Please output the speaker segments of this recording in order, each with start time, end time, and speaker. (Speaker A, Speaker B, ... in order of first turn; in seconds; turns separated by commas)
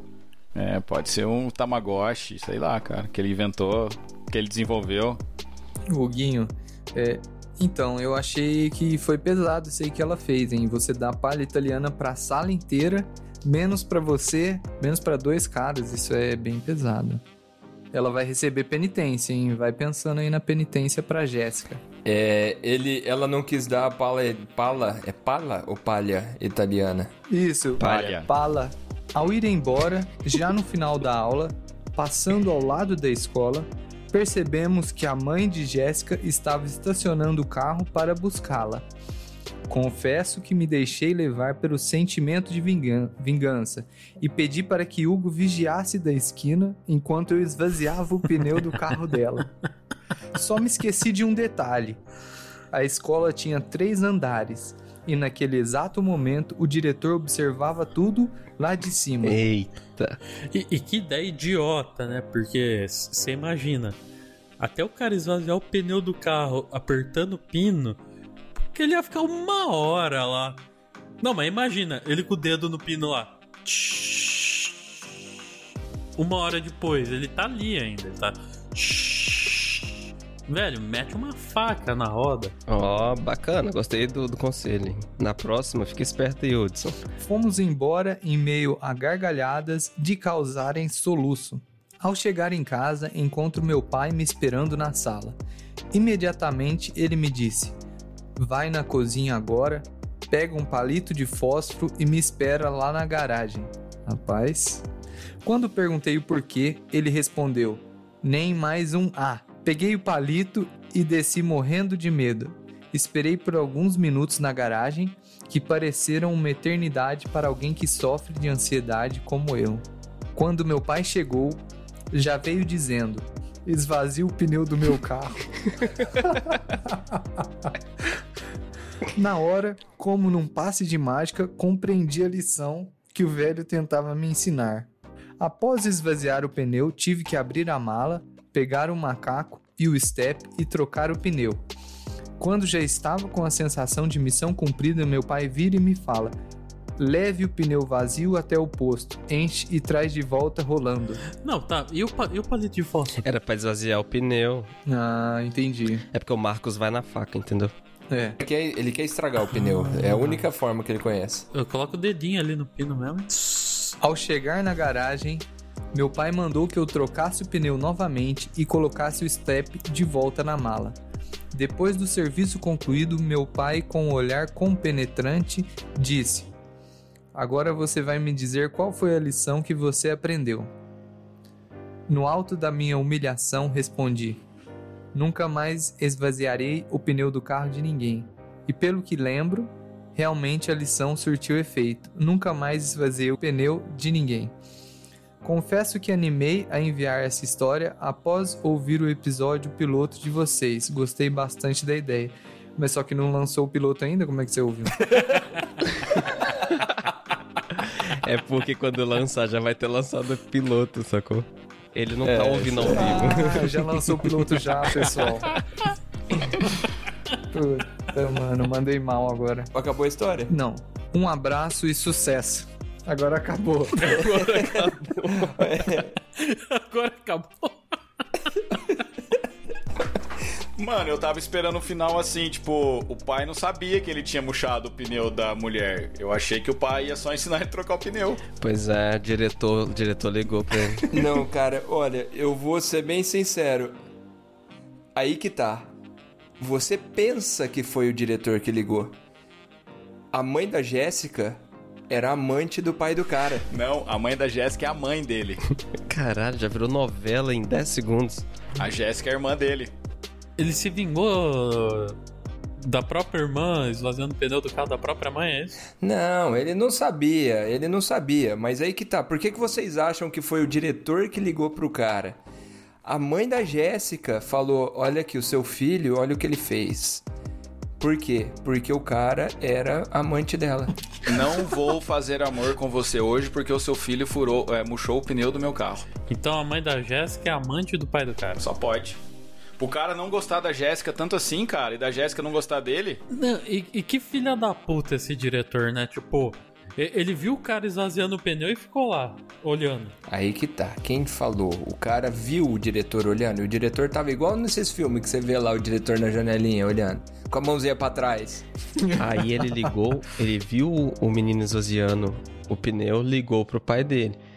Speaker A: 0.5-5.2, Speaker B: 5.9-17.2, Speaker B: 17.9-21.8, Speaker C: 22.0-27.1, Speaker B: 27.3-38.9, Speaker A: 27.8-28.3, Speaker B: 39.7-49.5, Speaker B: 50.3-52.0, Speaker B: 52.7-59.4, Speaker D: 59.2-60.2, Speaker E: 60.5-64.0, Speaker E: 64.6-68.0, Speaker E: 68.7-70.6, Speaker E: 71.2-74.9, Speaker E: 76.2-82.5, Speaker D: 82.7-87.0, Speaker B: 87.2-95.4, Speaker B: 95.9-97.8, Speaker B: 98.4-104.8, Speaker B: 105.4-119.8, Speaker B: 120.3-121.6, Speaker B: 122.1-127.7, Speaker B: 129.1-134.9, Speaker B: 135.4-141.6, Speaker B: 142.4-146.3, Speaker B: 147.0-151.2, Speaker E: 151.3-153.2, Speaker D: 153.2-154.7, Speaker B: 154.9-156.0, Speaker D: 156.1-157.7, Speaker B: 158.1-158.4, Speaker C: 158.4-161.5, Speaker E: 159.7-160.4, Speaker E: 161.5-163.5, Speaker B: 163.9-170.9, Speaker B: 171.5-176.5, Speaker B: 177.3-180.7, Speaker B: 182.1-184.4, Speaker B: 185.1-194.5, Speaker B: 195.4-205.2, Speaker D: 207.7-214.3, Speaker C: 212.2-213.4, Speaker B: 212.9-215.5, Speaker B: 217.5-219.7, Speaker C: 219.7-220.5, Speaker B: 220.5-224.2, Speaker E: 224.0-224.9, Speaker D: 224.1-225.5, Speaker C: 224.3-226.1, Speaker E: 226.3-228.9, Speaker A: 230.8-238.4, Speaker D: 238.6-241.0, Speaker C: 241.1-243.9, Speaker C: 245.1-245.9, Speaker C: 246.6-249.1, Speaker C: 250.3-253.7, Speaker A: 253.7-255.7, Speaker D: 256.0-258.5, Speaker A: 258.8-259.9, Speaker E: 260.6-262.2, Speaker E: 262.8-265.8, Speaker C: 266.0-272.4, Speaker C: 273.0-277.2, Speaker C: 278.0-280.9, Speaker A: 281.2-286.1, Speaker E: 286.3-288.6, Speaker A: 288.6-289.2, Speaker A: 289.8-293.2, Speaker E: 293.3-300.1, Speaker C: 300.3-308.7, Speaker D: 309.2-314.4